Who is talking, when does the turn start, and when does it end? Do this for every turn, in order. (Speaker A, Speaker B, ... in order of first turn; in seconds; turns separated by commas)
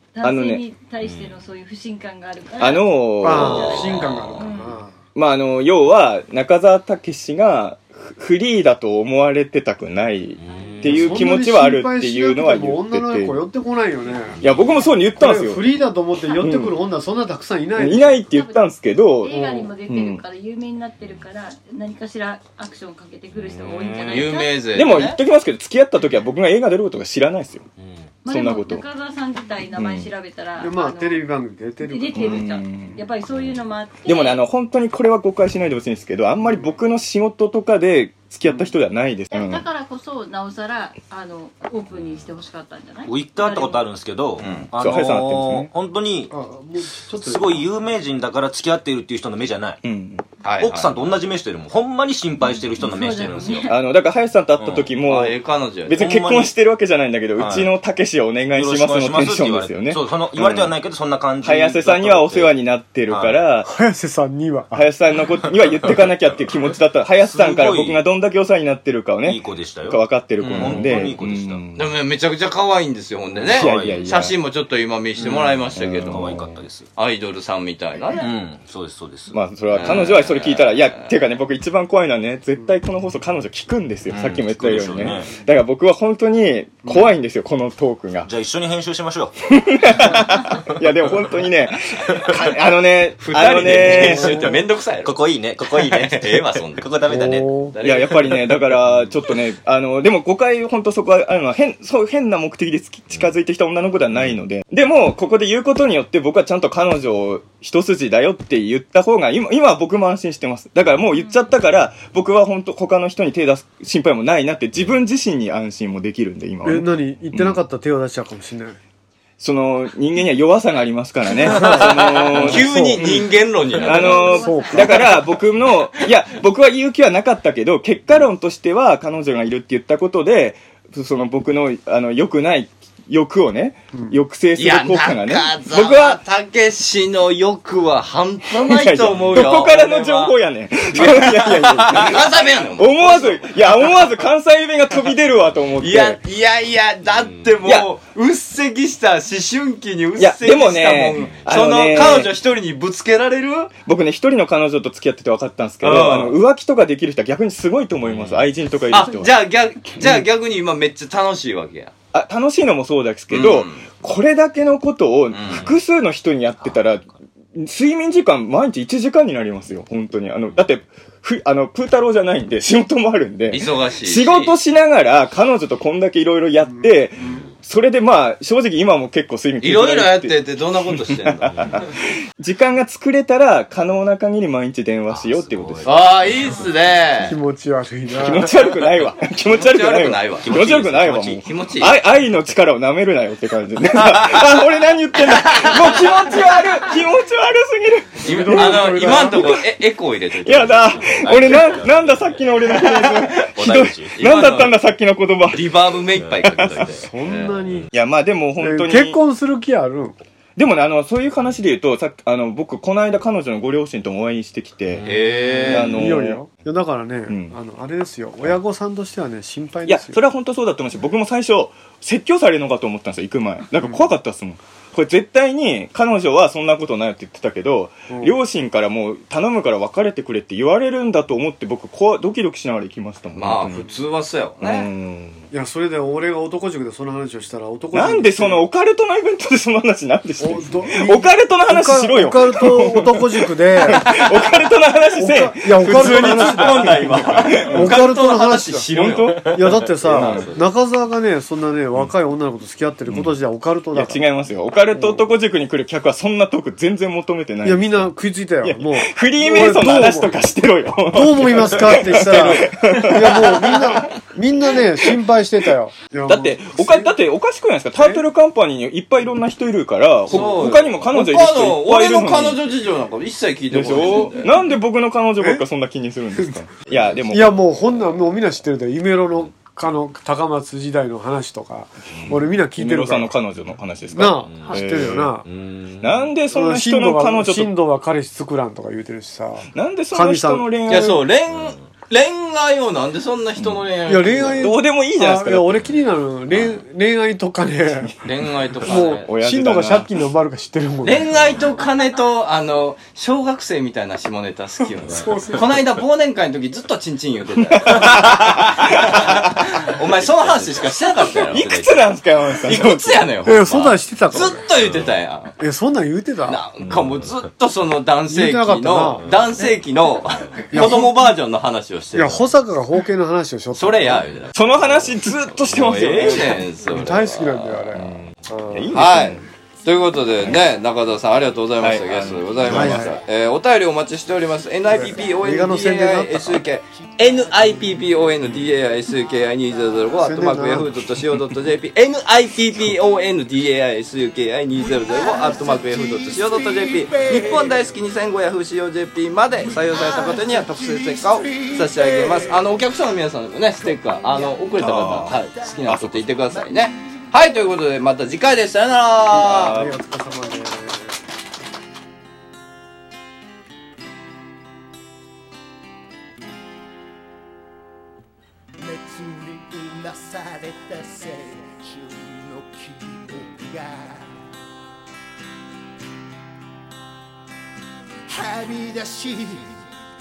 Speaker A: 0.1-4.8, Speaker B: 0.2-0.6, Speaker C: 1.0-1.4, Speaker B: 2.6-3.8, Speaker D: 3.2-4.9, Speaker B: 5.2-13.4, Speaker C: 10.4-11.2, Speaker A: 10.5-10.9, Speaker D: 10.8-14.4, Speaker C: 14.3-14.7, Speaker B: 14.4-15.7, Speaker D: 15.2-18.3, Speaker A: 16.2-16.5, Speaker B: 16.4-16.7, Speaker B: 17.8-20.2, Speaker A: 18.3-18.6, Speaker A: 19.2-24.6, Speaker D: 19.3-19.7, Speaker E: 24.1-25.2, Speaker B: 24.7-27.6, Speaker C: 27.8-28.1, Speaker A: 28.2-31.3, Speaker B: 28.3-28.9, Speaker B: 29.8-30.1, Speaker D: 30.6-32.5, Speaker A: 31.8-34.4, Speaker B: 32.1-33.0, Speaker B: 34.1-39.7, Speaker D: 36.5-36.7, Speaker A: 39.3-43.9, Speaker C: 43.1-46.3, Speaker E: 44.4-44.7, Speaker B: 44.8-45.7, Speaker D: 46.3-47.7, Speaker C: 47.1-49.8, Speaker B: 49.8-50.2, Speaker E: 50.4-51.2, Speaker C: 50.6-53.7, Speaker A: 52.4-53.8, Speaker B: 53.6-55.4, Speaker C: 54.6-54.9, Speaker E: 55.0-56.0, Speaker B: 55.9-60.7, Speaker C: 56.0-56.5, Speaker C: 57.4-57.7, Speaker C: 58.5-62.5, Speaker B: 61.4-63.7, Speaker C: 63.1-63.4, Speaker D: 63.6-64.9, Speaker B: 64.7-72.0, Speaker C: 67.3-68.0, Speaker C: 69.2-71.6, Speaker E: 70.4-71.0, Speaker E: 71.8-76.4, Speaker C: 73.3-74.1, Speaker B: 73.5-74.3, Speaker C: 75.2-76.9, Speaker B: 75.8-76.6, Speaker E: 77.0-78.3, Speaker C: 78.1-79.4, Speaker B: 79.3-88.3, Speaker E: 79.7-81.1, Speaker C: 84.1-85.4, Speaker C: 88.2-89.4, Speaker B: 89.5-94.5, Speaker E: 93.2-98.5, Speaker C: 93.8-94.1, Speaker D: 94.0-94.5, Speaker C: 95.0-97.5, Speaker D: 97.1-97.7, Speaker B: 97.8-117.6, Speaker D: 116.6-118.8, Speaker B: 119.4-123.3, Speaker D: 121.5-123.3, Speaker E: 121.9-124.5, Speaker B: 123.8-136.2, Speaker D: 123.8-125.0, Speaker A: 124.1-124.7, Speaker E: 134.6-140.3, Speaker B: 138.6-146.2, Speaker E: 140.9-144.0, Speaker E: 145.8-153.7, Speaker C: 147.2-147.4, Speaker B: 150.2-152.3, Speaker B: 153.8-159.4, Speaker E: 155.8-156.4, Speaker C: 158.1-158.5, Speaker E: 158.9-161.9, Speaker B: 162.1-180.4, Speaker E: 163.3-163.9, Speaker E: 165.3-165.7, Speaker E: 173.5-174.6, Speaker E: 179.6-181.8, Speaker C: 181.2-181.8, Speaker B: 181.3-181.8, Speaker B: 182.4-185.9, Speaker C: 185.1-186.7, Speaker E: 185.8-187.4, Speaker D: 187.2-188.5, Speaker B: 188.2-199.6, Speaker E: 189.5-192.0, Speaker C: 190.4-191.4, Speaker E: 195.4-196.2, Speaker D: 198.2-199.6, Speaker E: 198.2-201.8, Speaker B: 200.4-205.8, Speaker C: 201.0-202.4, Speaker E: 203.0-203.4, Speaker C: 203.4-204.2, Speaker E: 204.2-204.8, Speaker E: 205.5-207.6, Speaker B: 206.4-206.9, Speaker D: 206.9-207.9, Speaker C: 207.5-207.9, Speaker B: 207.9-209.2, Speaker D: 208.6-210.2, Speaker B: 210.6-215.1, Speaker C: 214.9-215.9, Speaker E: 215.0-216.1, Speaker B: 215.7-216.4, Speaker D: 215.8-220.2, Speaker B: 217.3-217.6, Speaker B: 219.9-233.9, Speaker D: 228.1-228.4, Speaker E: 233.4-234.9, Speaker B: 234.6-235.4, Speaker D: 235.5-238.6, Speaker B: 237.9-248.0, Speaker D: 240.4-244.2, Speaker D: 245.2-248.8, Speaker E: 245.8-250.6, Speaker B: 248.9-250.5, Speaker D: 249.5-254.2, Speaker B: 253.1-253.4, Speaker B: 253.9-264.1, Speaker D: 254.9-255.3, Speaker D: 257.6-260.4, Speaker D: 261.1-267.1, Speaker C: 261.6-262.1, Speaker B: 266.3-272.7, Speaker D: 268.0-268.2, Speaker E: 270.3-274.5, Speaker B: 273.7-277.7, Speaker D: 275.4-275.6, Speaker D: 277.2-283.3, Speaker B: 282.8-285.4, Speaker D: 284.1-285.5, Speaker C: 284.5-284.8, Speaker C: 285.4-286.1, Speaker B: 286.0-287.8, Speaker D: 286.5-290.7, Speaker B: 289.8-291.2, Speaker E: 290.9-294.7, Speaker B: 293.6-293.9, Speaker D: 294.1-298.2, Speaker B: 294.6-295.9, Speaker E: 298.2-299.3, Speaker B: 298.8-300.1, Speaker D: 298.8-301.5, Speaker E: 301.0-312.0, Speaker D: 305.1-305.8, Speaker B: 307.8-309.2, Speaker C: 308.1-309.4, Speaker C: 310.2-311.4, Speaker B: 311.4-313.3, Speaker E: 312.6-315.6, Speaker D: 313.4-314.6, Speaker C: 314.8-315.1, Speaker D: 315.6-316.6, Speaker E: 316.5-322.5, Speaker C: 316.9-317.3, Speaker D: 318.3-319.2, Speaker C: 319.2-319.7, Speaker D: 320.7-321.2, Speaker D: 322.1-324.2, Speaker E: 323.8-324.5, Speaker B: 324.5-326.7, Speaker E: 325.1-327.9, Speaker D: 326.4-328.9, Speaker B: 327.9-329.5, Speaker E: 328.9-359.8, Speaker F: 330.0-330.3, Speaker B: 330.4-330.7, Speaker B: 331.8-333.1, Speaker D: 332.7-333.2, Speaker F: 334.5-335.6, Speaker D: 334.9-336.6, Speaker F: 336.9-340.7, Speaker D: 340.2-340.9, Speaker F: 344.7-348.0, Speaker F: 349.5-353.0, Speaker F: 353.7-357.8, Speaker B: 354.8-355.1, Speaker D: 359.3-361.2, Speaker B: 359.4-359.9, Speaker F: 368.8-374.3, Speaker F: 378.3-379.8